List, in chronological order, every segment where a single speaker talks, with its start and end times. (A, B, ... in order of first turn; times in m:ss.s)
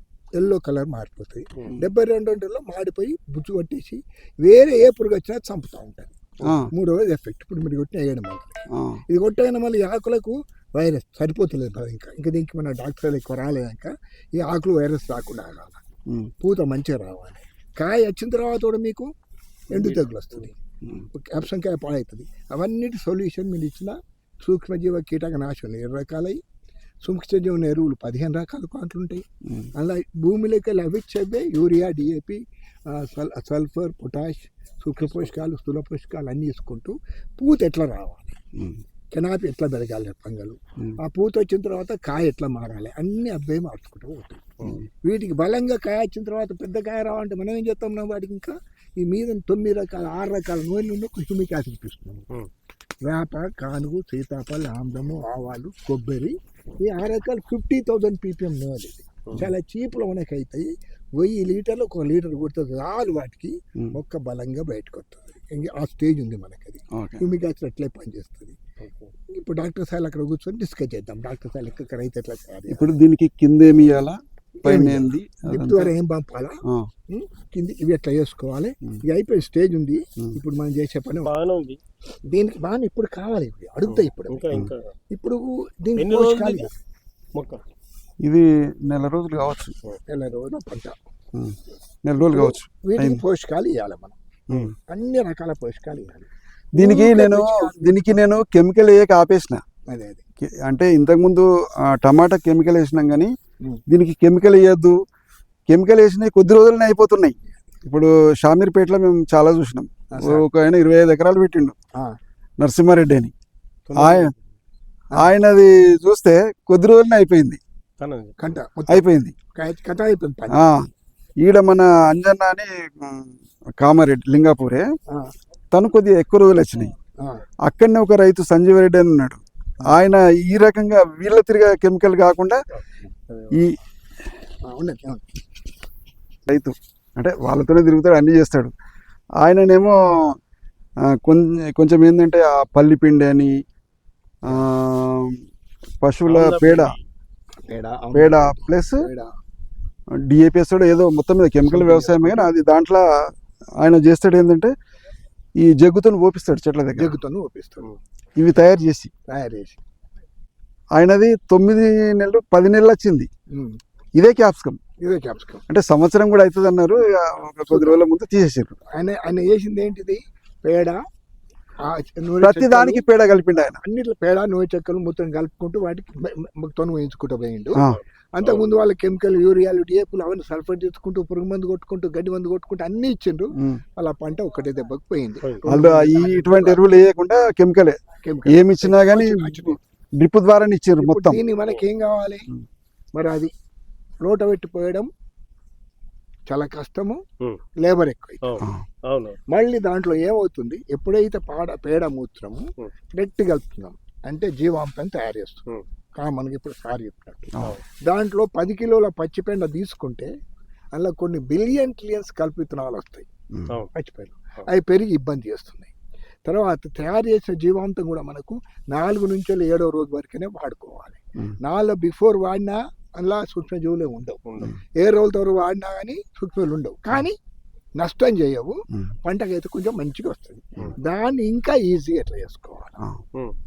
0:00.4-0:15.8 A
0:08.8-0:09.0 B
0:16.4-0:19.1 A
0:19.7-0:20.5 C
0:19.7-0:20.6 A
0:21.1-0:26.4 A
0:27.0-0:29.2 A
0:29.8-0:38.4 A
0:35.0-0:35.3 C
0:39.1-0:52.3 A
0:53.1-1:08.6 A
1:07.0-1:07.3 B
1:08.8-1:09.1 C
1:09.3-1:13.0 A
1:12.7-1:15.9 B
1:14.6-1:21.3 A
1:21.2-1:21.8 C
1:22.3-1:24.6 A
1:23.9-1:24.8 C
1:25.1-1:26.7 A
1:26.0-1:26.7 C
1:28.2-1:29.8 B
1:30.1-1:31.0 A
1:31.4-1:33.2 B
1:32.2-1:34.2 A
1:34.8-1:38.2 A
1:36.8-1:39.6 B
1:39.9-1:40.2 A
1:40.4-1:43.3 B
1:43.9-1:45.0 B
1:45.7-1:47.3 B
1:47.8-1:51.8 B
1:50.1-1:50.4 A
1:52.6-1:53.3 B
1:53.9-1:54.4 C
1:54.0-1:54.3 B
1:55.1-1:57.6 B
1:58.0-1:58.5 C
1:58.4-2:00.6 A
1:58.9-1:59.3 B
2:01.4-2:04.9 B
2:05.7-2:06.9 B
2:07.7-2:12.6 B
2:14.6-2:15.2 A
2:16.5-2:18.7 B
2:19.4-2:20.4 B
2:21.1-2:23.5 B
2:24.5-2:25.4 B
2:26.0-2:26.9 B
2:26.3-2:27.0 C
2:27.6-2:29.3 A
2:28.2-2:29.0 B
2:30.3-2:33.0 B
2:31.6-2:32.5 A
2:33.8-2:34.7 B
2:35.6-2:37.1 B
2:37.0-2:37.9 A
2:38.4-2:39.1 B
2:39.3-2:39.8 A
2:41.0-2:43.3 B
2:44.2-2:44.8 B
2:45.0-2:45.6 A
2:45.7-2:48.8 B
2:47.7-2:48.0 A
2:48.9-2:51.0 A
2:51.8-2:53.0 A
2:52.4-2:53.8 B
2:53.8-2:57.8 A
2:57.8-2:58.7 C
2:58.3-3:06.9 A
3:05.7-3:08.0 B
3:08.2-3:09.8 A
3:08.5-3:11.4 B
3:11.0-3:12.5 A
3:13.1-3:13.5 A
3:14.2-3:15.1 A
3:16.5-3:17.2 A
3:17.8-3:18.6 A
3:18.4-3:19.4 C
3:19.5-3:25.7 A
3:26.2-3:27.5 A
3:28.1-3:30.3 A
3:30.9-3:33.3 A
3:33.9-3:35.9 A
3:36.5-3:47.4 A
3:48.0-3:53.0 A